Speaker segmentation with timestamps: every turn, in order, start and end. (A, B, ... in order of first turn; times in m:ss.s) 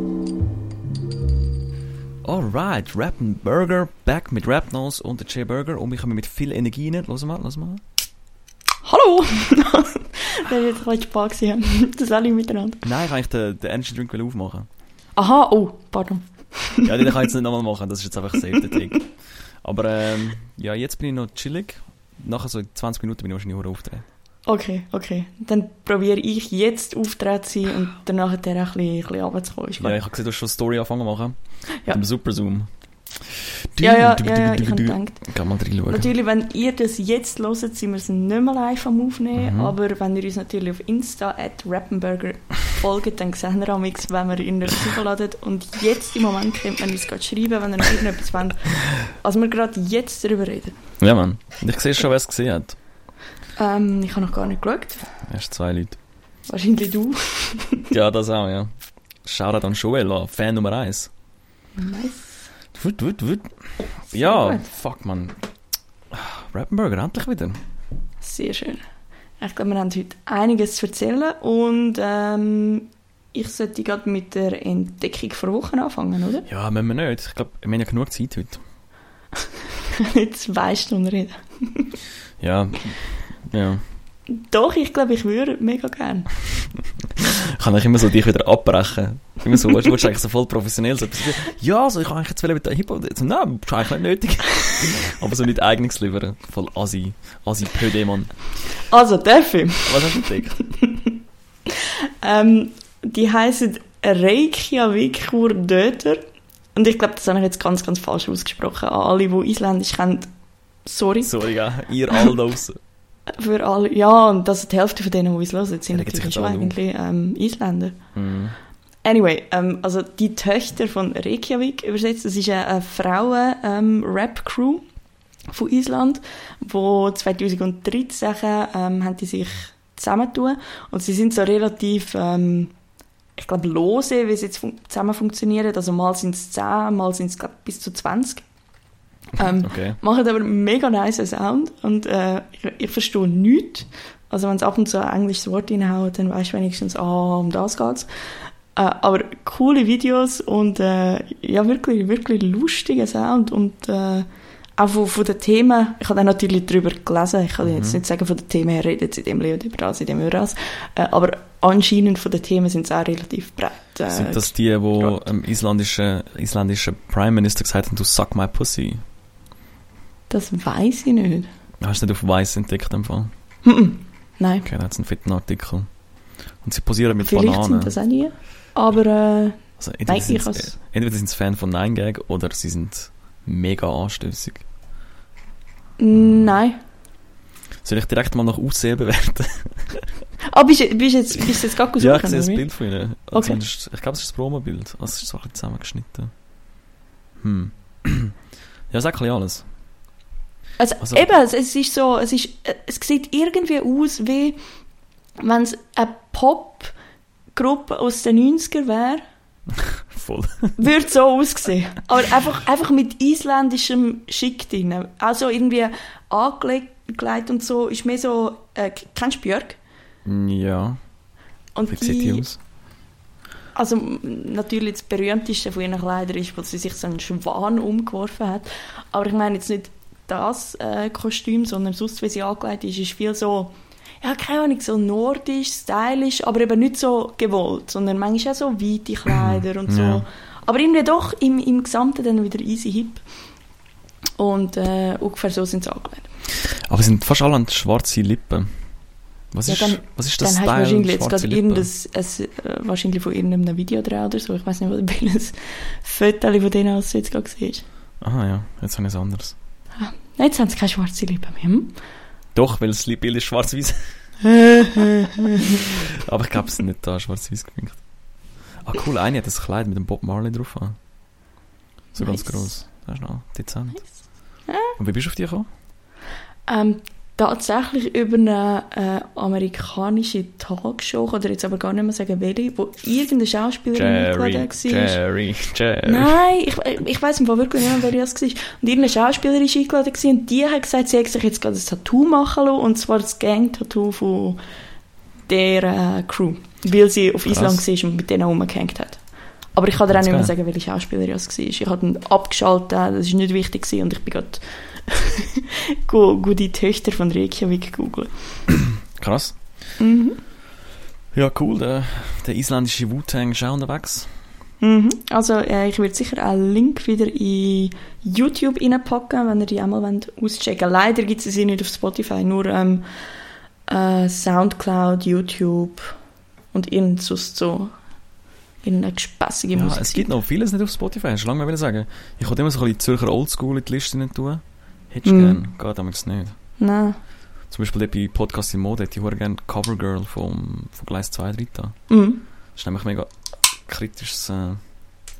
0:02.2-0:07.8 A
0:08.8-0:12.8 B
0:12.8-0:14.7 A
0:15.2-0:17.1 B
0:16.8-0:24.0 A
0:24.4-0:30.0 B
0:29.8-0:36.1 A
0:33.8-0:50.8 B
0:39.4-0:39.7 A
0:51.0-0:52.8 A
0:53.6-0:55.1 B
0:55.2-0:56.0 A
0:56.5-0:57.8 B
0:57.9-0:58.7 A
0:59.2-1:01.1 A
1:01.8-1:02.2 B
1:02.7-1:05.4 A
1:04.1-1:04.6 B
1:06.1-1:07.6 A
1:08.2-1:08.8 B
1:09.4-1:16.4 B
1:16.4-1:18.6 A
1:20.0-1:22.0 B
1:22.4-1:23.8 A
1:24.3-1:26.4 B
1:27.2-1:38.8 A
1:38.9-1:40.3 B
1:39.8-1:40.7 A
1:42.2-1:46.2 B
1:46.7-1:50.3 B
1:50.8-1:51.3 B
1:51.2-1:52.8 A
1:53.3-1:58.0 B
1:55.9-1:56.7 A
1:58.1-1:58.6 A
1:59.0-2:04.8 B
2:05.5-2:12.7 B
2:13.4-2:18.4 B
2:19.4-2:45.3 B
2:19.5-2:20.0 A
2:37.6-2:38.0 A
2:44.1-2:49.0 A
2:50.3-2:51.5 B
2:51.8-2:53.3 A
2:53.6-2:54.6 B
2:54.6-2:58.0 A
2:57.2-3:00.7 B
2:59.8-3:04.6 A
3:06.0-3:06.8 B
3:06.1-3:06.5 A
3:07.8-3:10.1 A
3:10.5-3:12.7 B
3:12.0-3:16.3 A
3:13.3-3:13.6 B
3:17.4-3:18.4 A
3:18.9-3:19.6 A
3:20.8-3:24.6 B
3:21.0-3:21.3 A
3:25.4-3:26.9 B
3:27.5-3:29.2 B
3:29.8-3:30.8 A
3:30.8-3:39.8 B
3:40.2-3:41.0 A
3:41.7-3:42.5 B
3:41.9-3:42.6 A
3:43.7-4:03.2 B
3:59.3-4:00.2 A
4:04.4-4:06.3 B
4:06.7-4:11.9 A
4:09.6-4:17.8 B
4:18.2-4:19.6 A
4:20.0-4:22.0 B
4:22.5-4:24.2 A
4:24.4-4:25.8 B
4:26.2-4:31.0 A
4:32.1-4:32.8 B
4:32.1-4:35.7 A
4:34.7-4:35.0 B
4:36.7-4:45.2 B
4:43.9-4:46.4 A
4:46.0-4:54.6 B
4:55.5-5:08.7 B
4:57.5-4:57.8 A
5:00.1-5:00.5 A
5:09.1-5:09.6 A
5:10.0-5:10.4 B
5:11.3-5:14.4 A
5:14.8-5:23.2 B
5:23.9-5:26.2 B
5:26.7-5:28.0 B
5:28.8-5:30.3 B
5:29.7-5:36.6 A
5:35.2-5:35.6 B
5:36.8-5:37.2 B
5:37.7-5:45.1 A
5:42.1-5:42.4 B